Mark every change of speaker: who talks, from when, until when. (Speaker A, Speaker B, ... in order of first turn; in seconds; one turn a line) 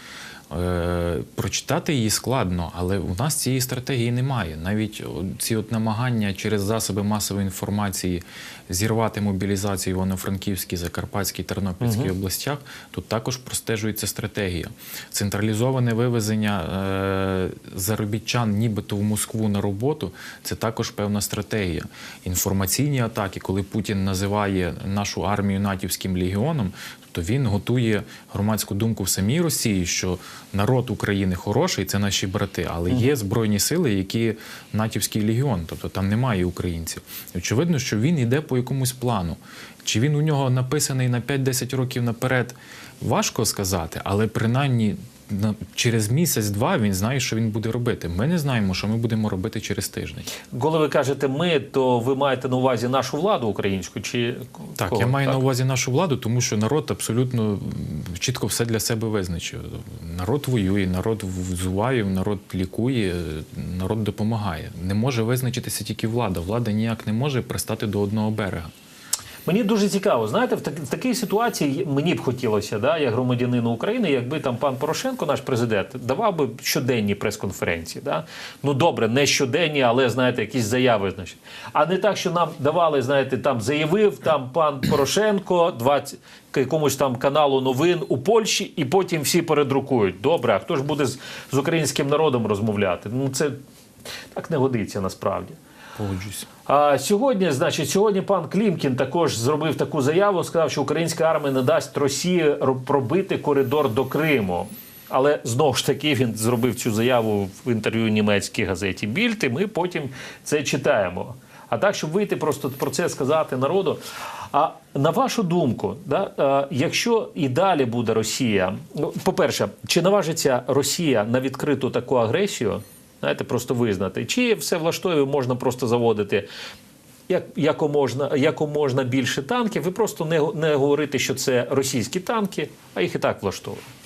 Speaker A: 0.5-50.3
Speaker B: 11.8-12.1
Speaker B: 50.5-55.4
Speaker A: 54.8-68.7
Speaker B: 69.5-93.6
Speaker B: 94.3-95.6
Speaker A: 96.0-96.5
Speaker B: 96.7-114.0
Speaker B: 114.5-126.5
Speaker B: 127.3-133.9